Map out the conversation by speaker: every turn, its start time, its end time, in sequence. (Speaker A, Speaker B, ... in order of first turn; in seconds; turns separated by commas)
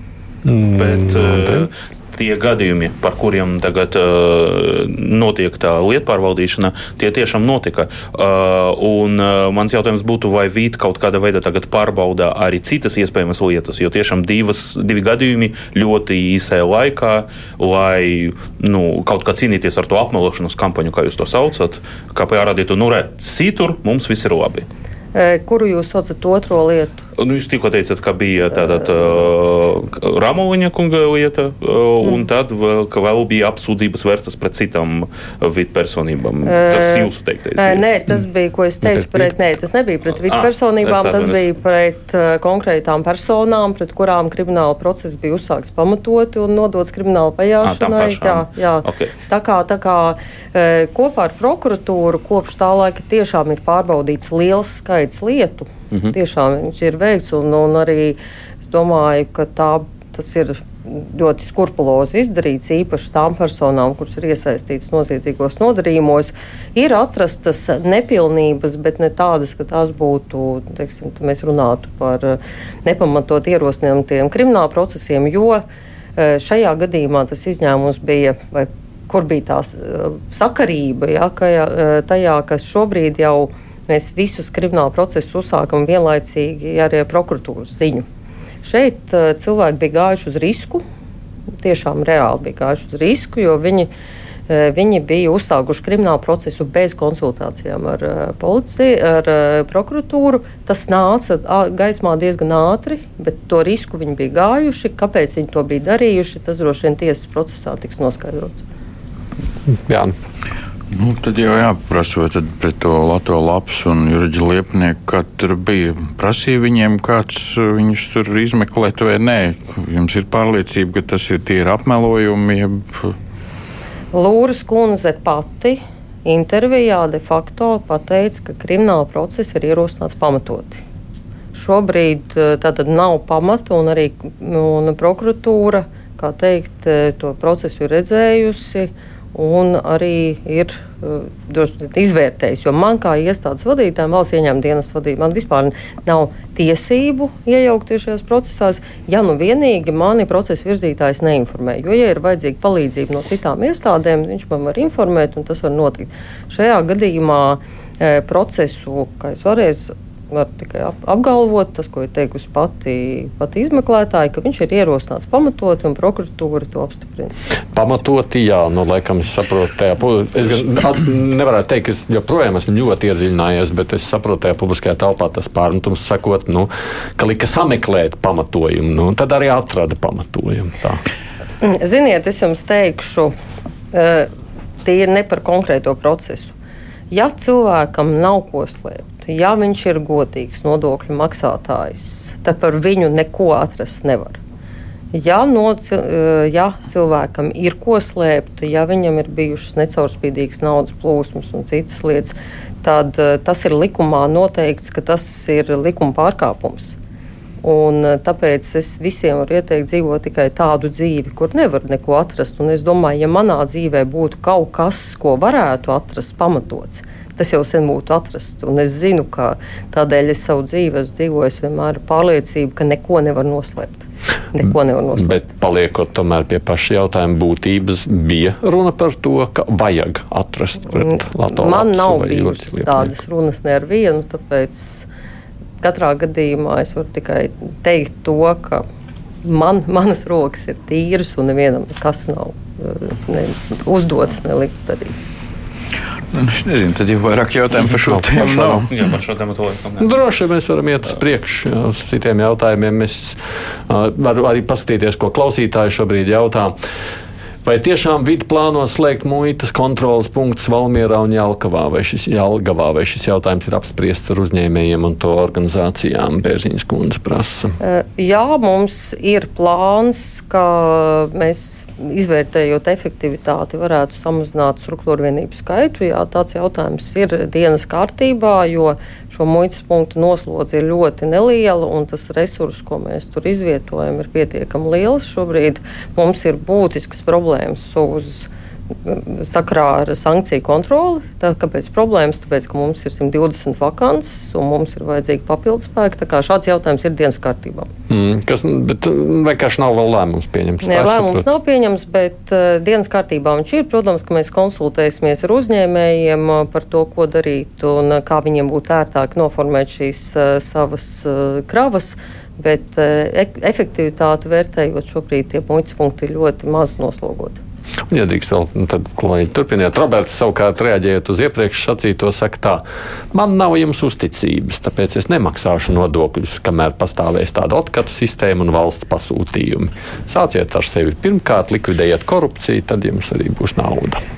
Speaker A: 0.4-1.7, Speaker B: 0.8-24.7, Speaker C: 25.1-27.0, Speaker B: 27.2-37.8, Speaker C: 36.5-75.6, Speaker A: 38.8-39.3, Speaker B: 40.2-41.4, Speaker B: 47.6-49.1, Speaker C: 76.2-88.0, Speaker C: 88.6-90.8, Speaker C: 91.6-93.9, Speaker C: 94.5-108.6, Speaker A: 109.8-110.1, Speaker D: 110.9-123.1, Speaker C: 124.1-130.8, Speaker C: 131.5-167.3, Speaker A: 167.7-181.0, Speaker C: 181.6-183.3, Speaker C: 183.9-184.3, Speaker C: 184.8-186.5, Speaker C: 187.1-194.4, Speaker C: 195.1-207.0, Speaker C: 207.6-225.4, Speaker A: 225.2-233.1, Speaker C: 230.9-235.1, Speaker C: 235.8-238.8, Speaker C: 239.4-245.2, Speaker D: 246.3-248.9, Speaker A: 248.2-248.9, Speaker B: 248.5-250.1, Speaker A: 250.0-253.4, Speaker A: 253.9-256.8, Speaker A: 257.6-267.8, Speaker C: 267.8-288.5, Speaker C: 289.1-297.9, Speaker A: 298.1-301.4, Speaker C: 300.8-317.6, Speaker A: 318.1-334.2